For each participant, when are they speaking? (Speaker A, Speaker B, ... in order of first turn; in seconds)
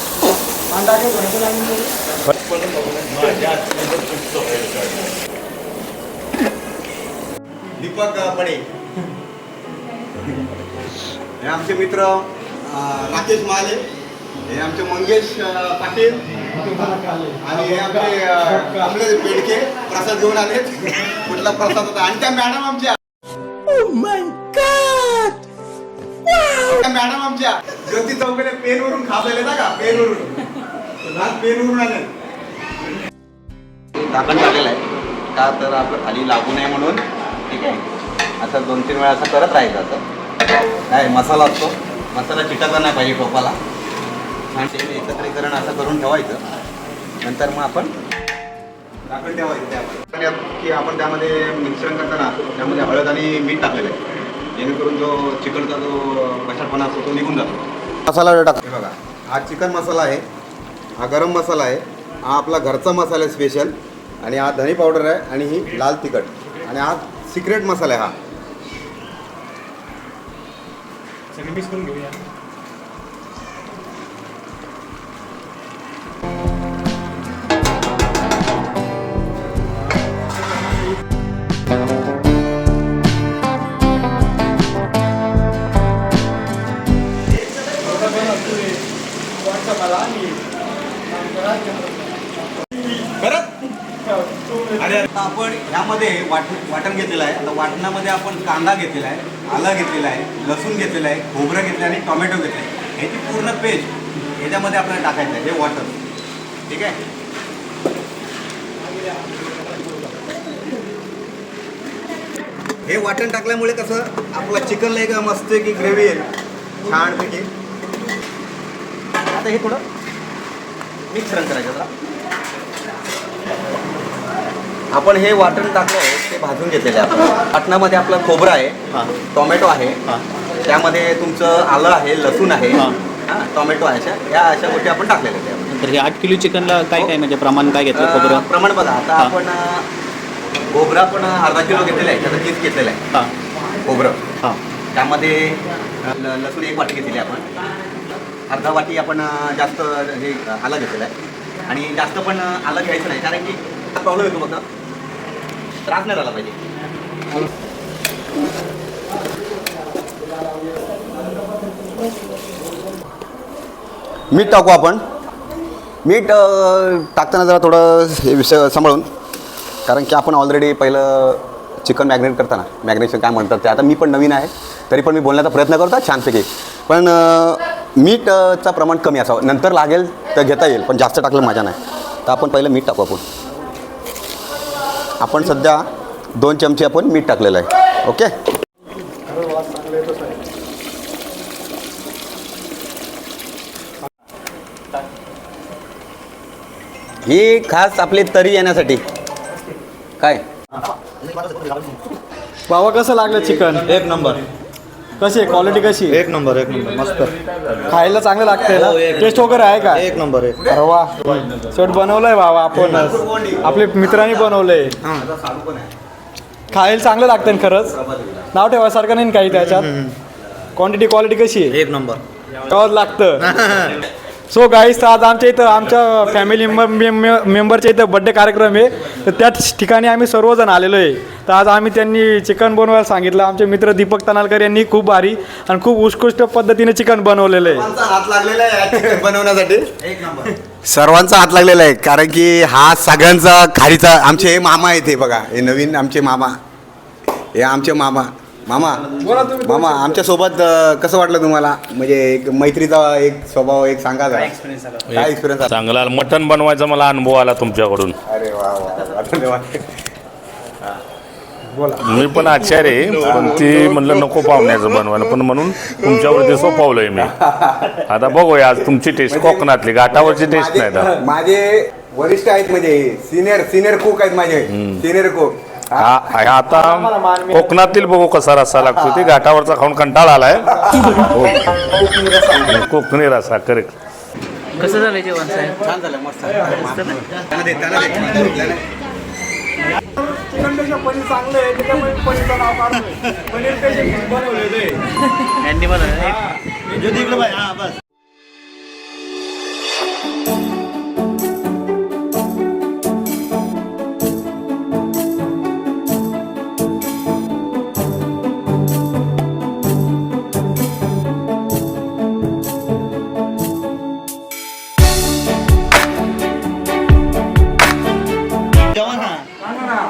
Speaker A: 0.7-1.9, 3.1-3.5, 16.5-18.9, 71.3-72.1, 87.8-88.8, 89.3-90.4, 91.1-93.2, 94.0-95.1, 189.3-190.4, 202.7-203.9, 205.2-206.2, 207.9-210.1, 210.7-214.9, 216.7-218.0, 218.5-220.0, 220.7-221.8, 222.6-223.5, 224.5-237.9, 249.2-250.2, 261.8-262.0, 276.7-277.9, 281.0-282.9, 284.8-285.8, 286.6-286.9, 290.0-295.0, 296.1-297.6
Speaker B: 2.5-4.6, 201.3-201.7, 203.7-204.4, 206.1-207.3, 208.7-210.6, 212.8-213.1, 219.5-220.2, 221.7-222.2, 223.4-224.0, 297.0-298.0, 318.9-319.4
Speaker C: 7.8-8.6, 11.4-13.8, 14.5-23.0, 24.7-25.2, 26.5-30.4, 31.0-32.1, 34.0-34.8, 35.3-37.8, 38.4-40.0, 40.9-43.6, 44.5-46.4, 47.2-47.9, 49.1-54.0, 54.5-60.2, 61.0-68.1, 93.2-93.6, 94.8-106.0, 106.7-107.0, 112.8-116.2, 116.8-117.5, 119.3-119.8, 121.1-121.9, 124.9-130.0, 130.6-135.7, 137.9-139.8, 140.7-143.0, 143.8-144.2, 144.9-147.5, 148.5-151.1, 151.7-154.6, 155.8-156.6, 164.3-165.0, 166.0-169.1, 169.8-183.2, 185.2-188.3, 197.2-199.0, 207.9-209.4, 212.7-215.9, 217.4-218.5, 237.6-246.5, 247.5-254.5, 255.1-255.8, 258.2-259.9, 263.0-264.8, 266.1-266.5, 267.2-268.0, 269.2-276.1, 278.8-279.4, 285.8-288.8
Speaker D: 135.7-138.5, 254.3-255.1, 284.8-285.8, 286.9-287.2, 295.5-296.4
Speaker E: 207.2-207.8, 255.1-258.1, 262.0-267.3, 267.9-271.2, 274.7-275.0, 275.9-281.6, 282.7-283.9